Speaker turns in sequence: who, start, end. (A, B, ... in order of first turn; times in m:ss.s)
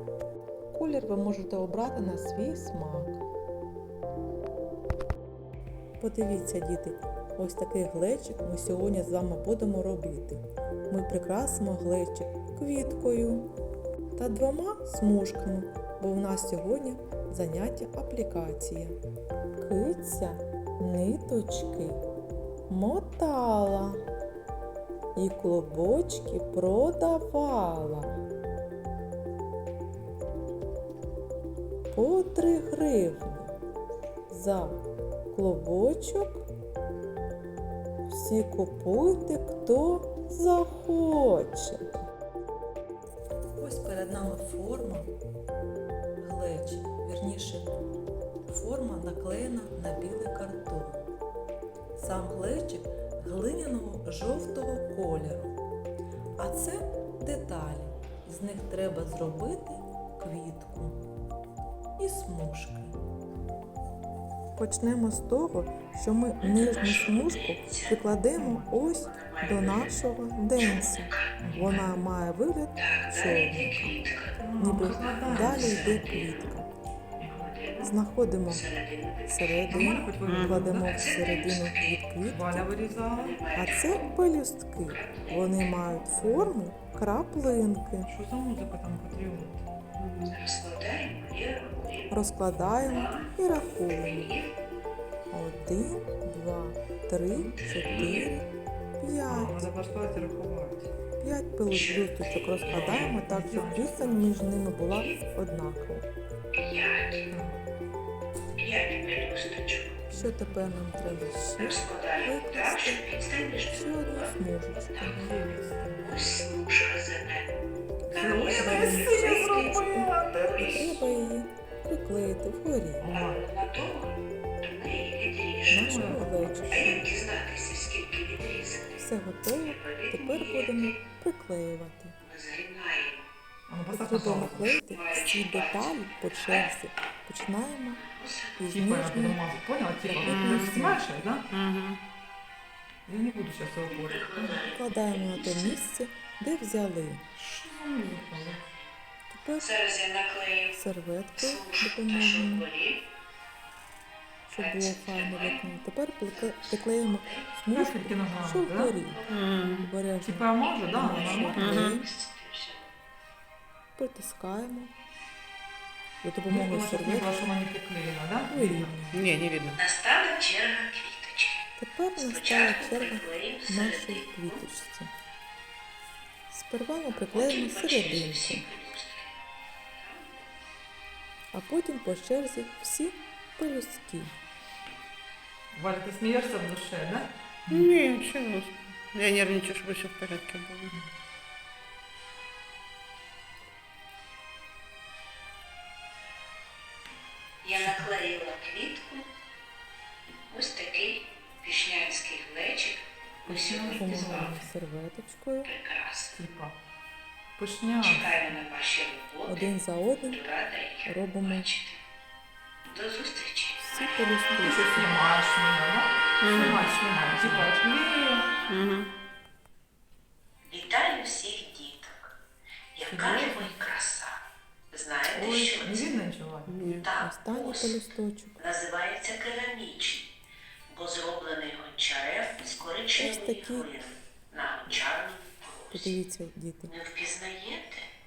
0:00.7-0:03.2 A
0:06.0-0:13.5 A
0:14.2-0:19.0 A
0:19.6-0:22.0 A
0:22.7-0:24.0 A
0:25.1-0:28.1 A
0:31.9-0:33.5 A
0:34.3-0:34.8 A
0:35.3-0:36.4 A
0:38.0-0:41.9 A
0:43.5-0:45.1 A
0:46.2-0:47.7 A
0:48.5-0:51.0 A
0:51.9-0:55.6 A
0:56.4-1:01.0 A
1:02.0-1:03.0 A
1:04.5-1:14.0 A
1:06.4-1:08.0 B
1:08.3-1:08.7 C
1:08.8-1:09.9 B
1:10.6-1:11.4 B
1:11.4-1:12.0 C
1:12.8-1:16.5 B
1:14.4-1:16.1 C
1:14.6-1:16.7 A
1:17.2-1:17.5 C
1:17.2-1:17.9 B
1:17.8-1:18.6 A
1:18.5-1:19.8 B
1:19.3-1:22.8 A
1:19.7-1:21.0 C
1:20.3-1:20.6 D
1:20.7-1:22.0 B
1:22.2-1:23.4 C
1:23.1-1:24.1 B
1:23.5-1:28.1 A
1:24.8-1:26.0 B
1:26.0-1:26.5 C
1:28.0-1:29.6 C
1:30.0-1:30.3 D
1:30.2-1:34.5 B
1:32.1-1:34.4 A
1:35.3-1:39.7 A
1:37.3-1:38.3 B
1:39.3-1:40.9 C
1:41.2-1:46.0 A
1:41.7-1:43.1 B
1:42.7-1:44.6 C
1:44.8-1:45.2 B
1:46.5-1:47.3 B
1:47.3-1:47.6 C
1:48.6-1:50.1 B
1:50.1-1:55.4 A
1:50.1-1:50.7 C
1:51.6-1:54.3 B
1:54.9-1:55.3 B
1:55.2-1:56.2 C
1:56.0-1:57.5 B
1:58.1-1:59.8 B
1:58.1-2:00.8 C
1:58.4-2:03.1 A
2:00.4-2:01.1 B
2:03.0-2:03.4 C
2:03.1-2:06.2 B
2:05.7-2:07.1 A
2:05.7-2:07.0 C
2:06.7-2:11.0 B
2:09.0-2:12.2 A
2:12.2-2:13.3 B
2:13.7-2:14.7 C
2:13.9-2:18.0 A
2:14.8-2:16.7 B
2:17.9-2:18.8 B
2:18.6-2:19.4 A
2:18.7-2:21.4 C
2:20.0-2:21.1 A
2:20.2-2:20.8 D
2:21.5-2:22.0 D
2:23.0-2:24.7 C
2:23.9-2:25.8 B
2:24.7-2:27.2 A
2:27.4-2:28.6 C
2:27.9-2:28.9 B
2:29.3-2:29.8 A
2:29.6-2:30.7 B
2:30.7-2:32.7 A
2:31.4-2:33.0 B
2:34.5-2:42.1 A
2:34.5-2:35.6 B
2:36.3-2:37.5 B
2:37.7-2:38.9 C
2:39.0-2:39.5 B
2:39.3-2:39.9 D
2:40.2-2:41.9 C
2:41.0-2:42.9 B
2:41.6-2:41.9 D
2:44.0-2:44.9 A
2:46.2-2:47.4 A
2:46.5-2:48.9 C
2:48.5-2:49.2 A
2:49.1-2:49.8 D
2:49.7-2:54.6 B
2:51.8-2:55.1 A
2:56.5-2:58.7 A
2:57.1-2:59.4 B
2:59.9-3:00.5 B
3:01.5-3:04.3 A
3:05.7-3:07.9 C
3:07.7-3:10.9 D
3:17.6-3:19.3 B
3:17.8-3:18.1 C
3:20.5-3:24.6 B
3:23.4-3:24.6 C
3:23.8-3:25.7 A
3:25.6-3:26.4 B
3:26.3-3:26.8 C
3:27.6-3:28.5 C
3:28.0-3:32.0 B
3:29.4-3:30.4 A
3:31.0-3:31.7 A
3:32.9-3:34.3 B
3:33.8-3:35.2 A
3:34.5-3:38.5 C
3:36.4-3:36.8 D
3:38.7-3:39.1 D
3:40.6-3:42.3 B
3:42.9-3:44.4 B
3:43.1-3:43.8 C
3:44.9-3:46.1 B
3:45.3-3:46.8 C
3:46.7-3:47.1 D
3:47.0-3:48.0 B
3:47.2-3:48.7 A
3:48.6-3:50.3 B
3:50.9-3:56.2 B
3:53.2-3:53.9 A
3:55.9-3:57.0 A
3:56.8-3:58.1 B